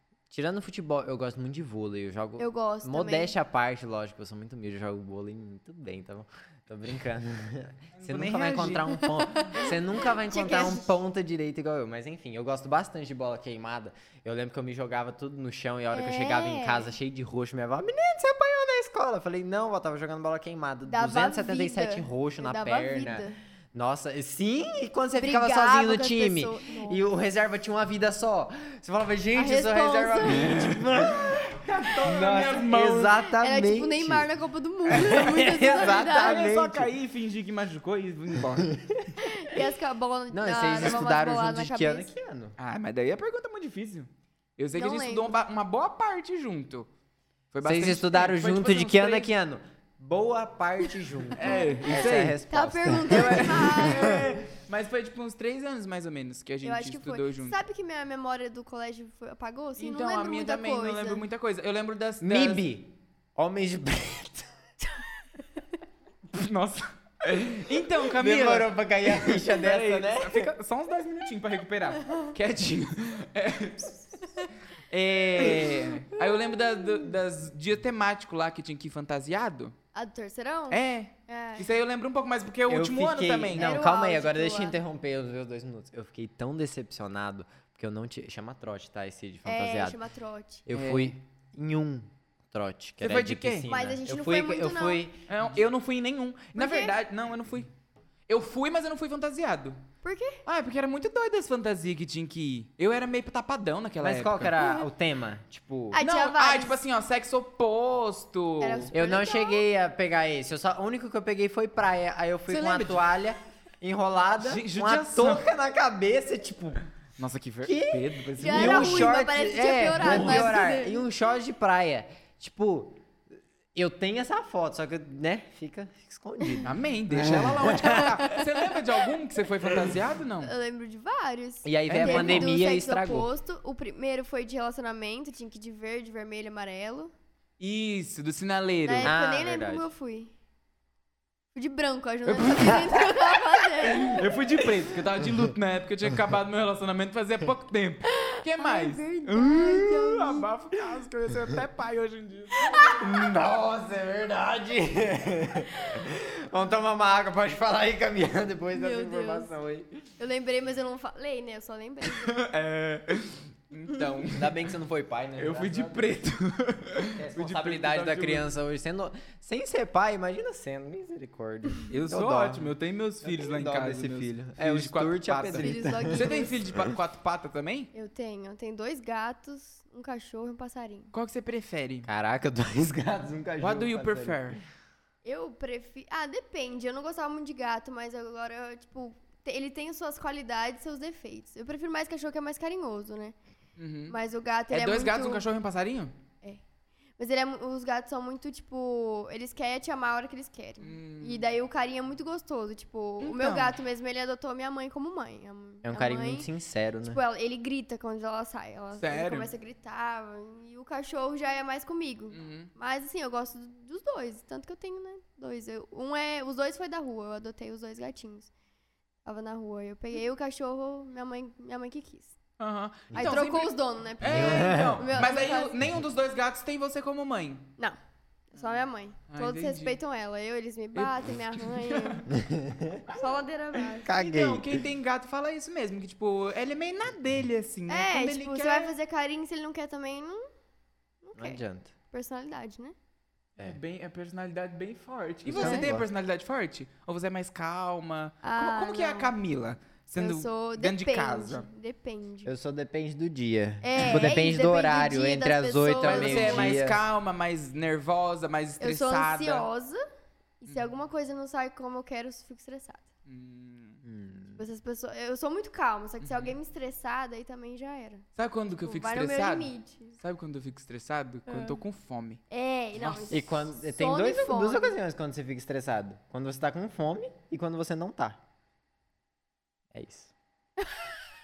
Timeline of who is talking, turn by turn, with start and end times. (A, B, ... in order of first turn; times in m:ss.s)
0:00.3-0:34.3 A
0:02.4-0:03.3 B
0:07.9-0:09.6 C
0:09.5-0:10.9 B
0:15.9-0:16.9 B
0:20.8-0:23.4 B
0:25.1-0:27.0 B
0:29.4-0:30.8 B
0:30.4-0:33.2 C
0:33.4-0:36.4 B
0:34.9-0:35.2 C
0:34.9-0:36.9 A
0:36.0-0:38.8 C
0:38.6-0:39.1 A
0:39.2-0:42.1 B
0:40.3-0:42.5 A
0:40.7-0:41.0 C
0:42.6-0:46.9 C
0:44.8-0:45.3 B
0:47.5-0:49.3 C
0:47.6-0:54.4 A
0:51.3-0:52.4 C
0:51.4-0:51.8 B
0:52.5-0:54.4 B
0:53.1-0:57.6 C
0:56.6-1:01.2 B
0:59.8-1:02.6 C
1:02.2-1:04.5 A
1:06.3-1:14.2 C
1:07.4-1:10.5 A
1:14.9-1:19.7 C
1:15.4-1:15.8 A
1:19.9-1:21.7 B
1:20.7-1:23.7 C
1:22.7-1:30.0 A
1:23.5-1:24.8 B
1:29.4-1:30.7 B
1:30.7-1:35.2 A
1:30.7-1:31.1 C
1:33.0-1:33.7 C
1:33.7-1:35.0 B
1:35.3-1:37.7 C
1:36.6-1:37.0 B
1:38.3-1:39.8 C
1:40.0-1:40.4 B
1:40.4-1:44.5 C
1:44.0-1:46.0 A
1:45.9-1:46.8 B
1:46.0-1:48.9 C
1:48.6-1:49.6 B
1:48.9-1:56.8 A
1:52.5-1:53.0 C
1:54.4-1:55.4 C
1:57.2-1:59.2 C
1:57.6-2:03.0 A
1:58.4-2:01.0 B
2:00.0-2:00.6 C
2:03.7-2:08.4 A
2:06.6-2:10.5 C
2:10.4-2:17.1 B
2:11.6-2:13.3 A
2:11.9-2:12.5 C
2:17.6-2:19.1 C
2:18.8-2:20.3 B
2:19.0-2:19.9 A
2:21.5-2:24.3 B
2:22.2-2:23.0 C
2:24.0-2:33.0 C
2:28.2-2:30.5 B
2:32.5-2:33.2 B
2:33.0-2:40.0 A
2:38.7-2:39.5 B
2:40.2-2:42.4 B
2:42.1-2:44.6 C
2:44.3-2:46.2 A
2:45.4-2:48.5 C
2:47.2-2:57.0 A
2:51.9-2:57.9 C
2:55.6-2:56.6 B
2:57.9-3:01.1 B
3:01.1-3:02.1 C
3:02.0-3:04.6 A
3:03.6-3:04.6 C
3:05.2-3:13.4 B
3:13.8-3:14.2 C
3:14.1-3:15.4 B
3:14.7-3:16.1 C
3:17.2-3:26.5 B
3:20.8-3:21.4 C
3:23.2-3:23.8 C
3:25.8-3:27.2 A
3:27.0-3:38.5 B
3:29.0-3:29.5 C
3:32.3-3:32.7 C
3:39.2-3:42.4 B
3:42.6-3:47.7 C
3:43.1-3:45.8 B
3:44.2-3:45.1 A
3:48.5-3:52.3 B
3:48.6-3:50.0 C
3:50.9-3:52.2 C
3:52.3-3:53.0 A
3:53.1-3:54.4 B
3:54.0-3:54.8 A
3:54.1-3:58.9 C
3:57.9-4:00.4 B
4:01.2-4:02.9 B
4:01.4-4:01.9 A
4:03.6-4:11.7 C
4:05.4-4:06.1 A
4:05.6-4:05.9 B
4:08.4-4:09.3 B
4:10.2-4:12.5 B
4:12.4-4:17.0 A
4:13.8-4:16.8 B
4:16.0-4:19.7 C
4:18.8-4:20.0 B
4:20.6-4:23.0 B
4:23.2-4:24.0 C
4:24.0-4:24.6 A
4:24.5-4:28.3 B
4:26.2-4:26.6 C
4:28.4-4:32.4 C
4:28.8-4:30.2 B
4:31.5-4:31.8 B
4:32.5-4:34.9 B
4:32.9-4:33.4 C
4:33.3-4:38.4 A
4:39.9-4:40.3 A
4:40.8-4:41.1 B